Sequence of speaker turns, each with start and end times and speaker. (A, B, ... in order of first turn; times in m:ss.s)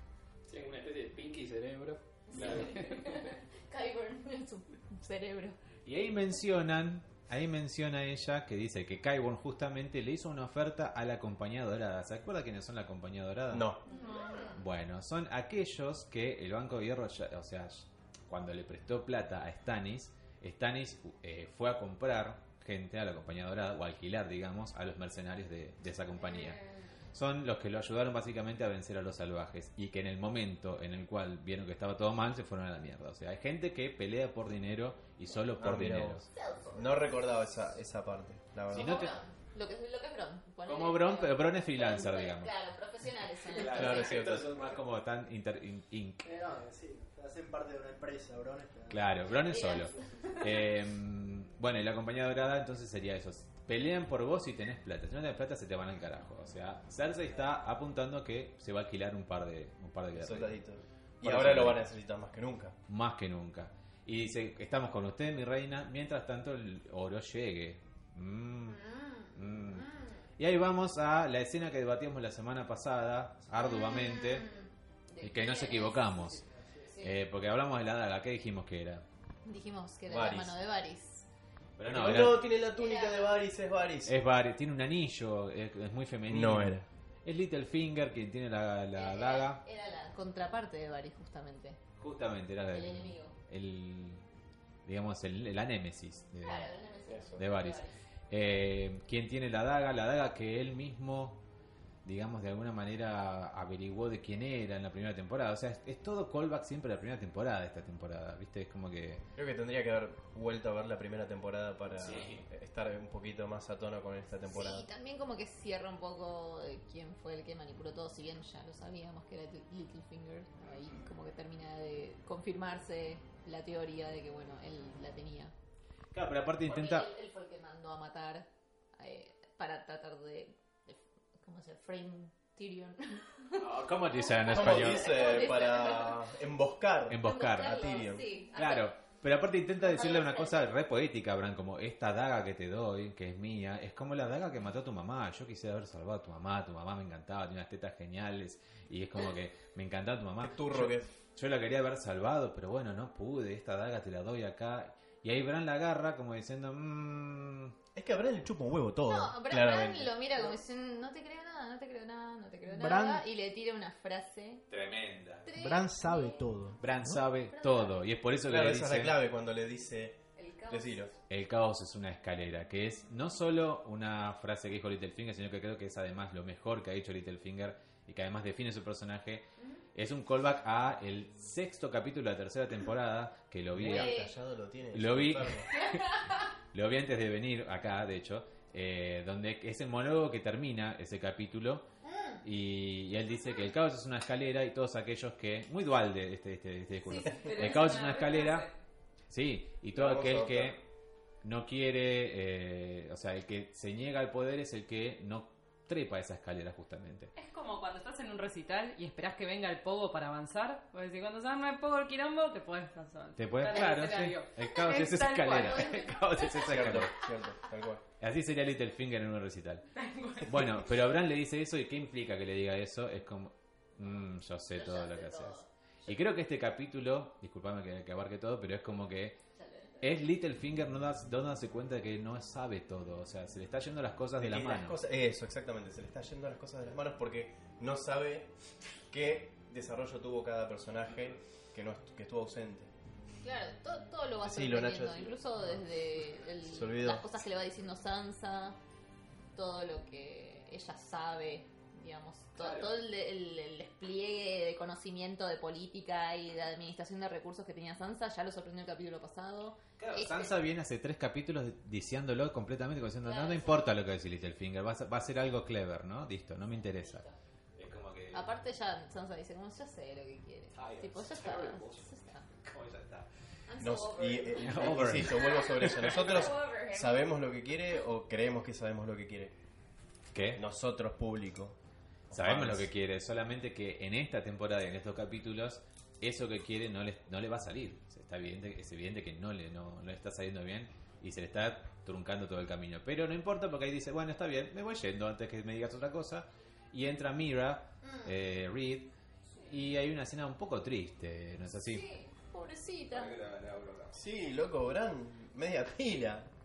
0:00.5-0:03.4 A
0:02.3-0:05.6 B
0:05.8-0:13.7 C
0:13.5-0:13.8 D
0:13.9-0:14.6 B
0:14.6-0:26.6 C
0:26.2-0:26.9 B
0:27.1-0:36.3 C
0:35.6-0:39.0 D
0:36.3-0:37.1 B
0:38.7-0:39.1 C
0:38.7-0:44.1 B
0:40.6-0:42.5 C
0:43.5-0:44.6 A
0:43.6-0:46.3 C
0:43.6-0:44.8 D
0:46.2-0:49.0 E
0:48.9-1:00.6 C
0:49.4-0:50.4 B
1:00.1-1:02.8 D
1:01.2-1:01.8 C
1:02.9-1:08.8 C
1:08.7-1:10.1 B
1:09.3-1:09.9 C
1:10.4-1:14.5 C
1:13.6-1:16.1 B
1:15.2-1:16.4 C
1:16.2-1:16.9 E
1:16.9-1:17.2 B
1:17.0-1:19.0 C
1:19.4-1:21.3 B
1:20.1-1:20.6 D
1:21.8-1:22.4 C
1:21.9-1:24.2 D
1:22.8-1:23.4 B
1:24.1-1:29.6 C
1:26.3-1:26.9 D
1:29.0-1:31.8 B
1:32.0-1:34.2 C
1:32.7-1:33.4 B
1:34.9-1:36.7 C
1:36.4-1:37.9 B
1:37.1-1:37.4 D
1:37.4-1:41.4 C
1:42.0-1:49.2 C
1:49.4-1:54.9 D
1:52.0-1:52.4 C
1:54.5-2:05.5 B
2:06.1-2:07.1 C
2:06.6-2:16.2 B
2:13.6-2:15.1 C
2:14.5-2:18.3 D
2:17.1-2:17.9 C
2:17.2-2:18.9 B
2:18.6-2:37.8 C
2:19.8-2:20.7 B
2:30.4-2:31.1 D
2:38.0-2:40.6 D
2:39.1-2:44.6 B
2:42.7-2:43.2 E
2:44.7-2:45.5 C
2:45.4-2:46.5 B
2:45.6-2:46.8 E
2:46.8-2:49.2 C
2:47.5-2:47.9 B
2:48.5-2:51.2 D
2:50.4-2:51.0 B
2:51.3-3:04.2 C
3:03.7-3:05.7 D
3:03.9-3:04.3 B
3:04.9-3:06.0 C
3:05.8-3:06.4 B
3:06.7-3:11.9 C
3:12.0-3:12.4 B
3:12.4-3:18.7 C
3:17.2-3:18.7 F
3:19.3-3:20.8 C
3:19.9-3:20.8 D
3:21.4-3:27.3 C
3:27.4-3:36.1 F
3:33.4-3:37.1 C
3:35.6-3:37.0 B
3:36.6-3:38.0 D
3:38.2-3:39.9 C
3:40.0-3:40.6 F
3:40.4-3:49.4 C
3:44.7-3:45.7 B
3:49.6-3:50.1 B
3:50.0-3:55.0 C
3:54.4-3:58.5 D
3:59.1-4:02.9 D
4:03.4-4:08.8 B
4:04.4-4:05.5 D
4:06.6-4:07.2 D
4:09.6-4:20.5 B
4:12.6-4:12.9 C
4:20.0-4:27.2 C
4:23.2-4:23.9 B
4:26.8-4:27.3 B
4:27.8-4:28.5 C
4:28.3-4:32.5 B
4:30.8-4:32.1 A
4:32.7-4:33.3 C
4:33.7-4:34.7 B
4:33.8-4:39.6 D
4:34.6-4:36.2 C
4:35.3-4:37.3 B
4:40.3-4:40.6 C
4:40.5-4:41.8 D
4:42.3-4:42.9 D
4:42.3-4:59.1 C
4:58.0-4:58.3 B
4:59.6-5:02.1 C
5:01.9-5:03.4 B
5:03.1-5:04.1 C
5:04.1-5:06.5 D